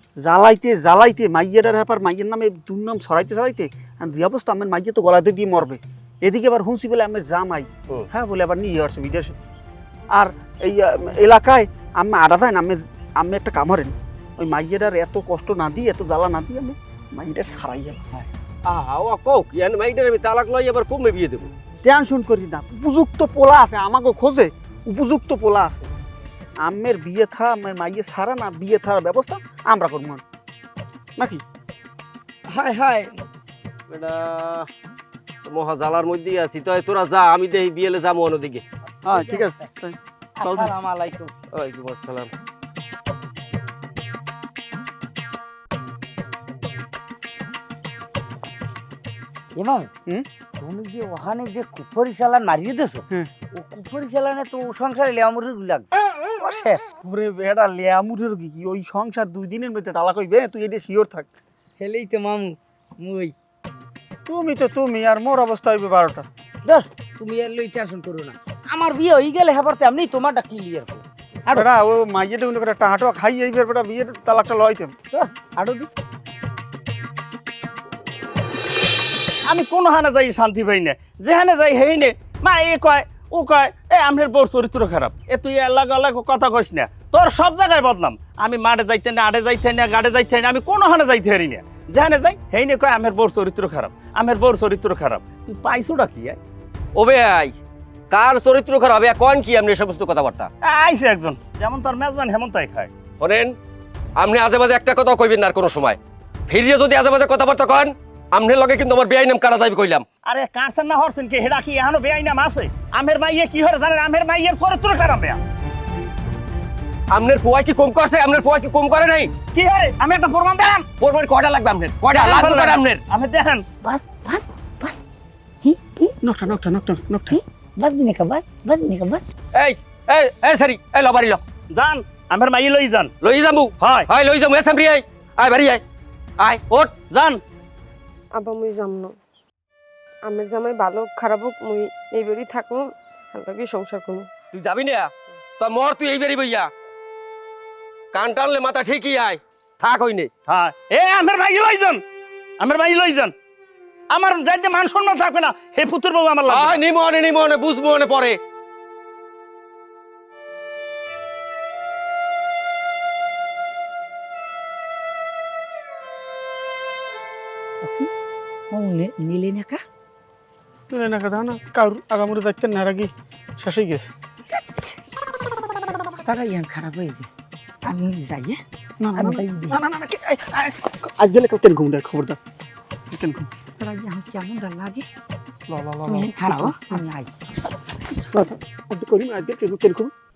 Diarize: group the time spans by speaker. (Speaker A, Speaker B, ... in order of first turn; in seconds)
Speaker A: 0.2-9.3, 10.1-18.1, 21.8-25.9, 26.6-30.2, 31.2-31.4, 39.0-40.7, 57.0-61.3, 64.3-66.2, 71.5-74.9, 126.2-127.4, 170.9-174.1, 179.0-182.4, 183.1-183.5, 185.7-187.0, 188.2-190.1
Speaker B: 18.6-21.5, 33.9-34.7, 35.5-38.6, 41.5-42.3, 96.9-97.5, 98.1-100.5, 103.2-103.5, 104.2-110.0, 117.1-119.3, 121.0-123.0, 129.5-131.4, 133.2-135.8, 136.4-136.6, 144.5-146.7, 148.1-150.3, 156.5-158.4
Speaker C: 32.5-33.2, 39.1-39.6, 40.4-41.3, 49.5-49.9, 50.5-56.9, 61.8-63.3, 66.6-71.7, 75.1-75.9, 123.8-125.0, 125.6-126.1, 127.3-129.2, 168.7-169.8, 174.5-175.0, 176.0-177.3, 177.8-178.6, 179.1-179.8, 183.8-185.1, 186.0-187.3
Speaker D: 79.5-96.4, 100.6-102.9, 110.2-115.4, 119.5-120.8, 122.2-123.6, 131.7-133.1, 133.8-134.1, 136.7-137.4, 150.5-152.0, 152.6-153.3, 154.1-156.8
Speaker E: 138.3-139.1, 140.2-144.3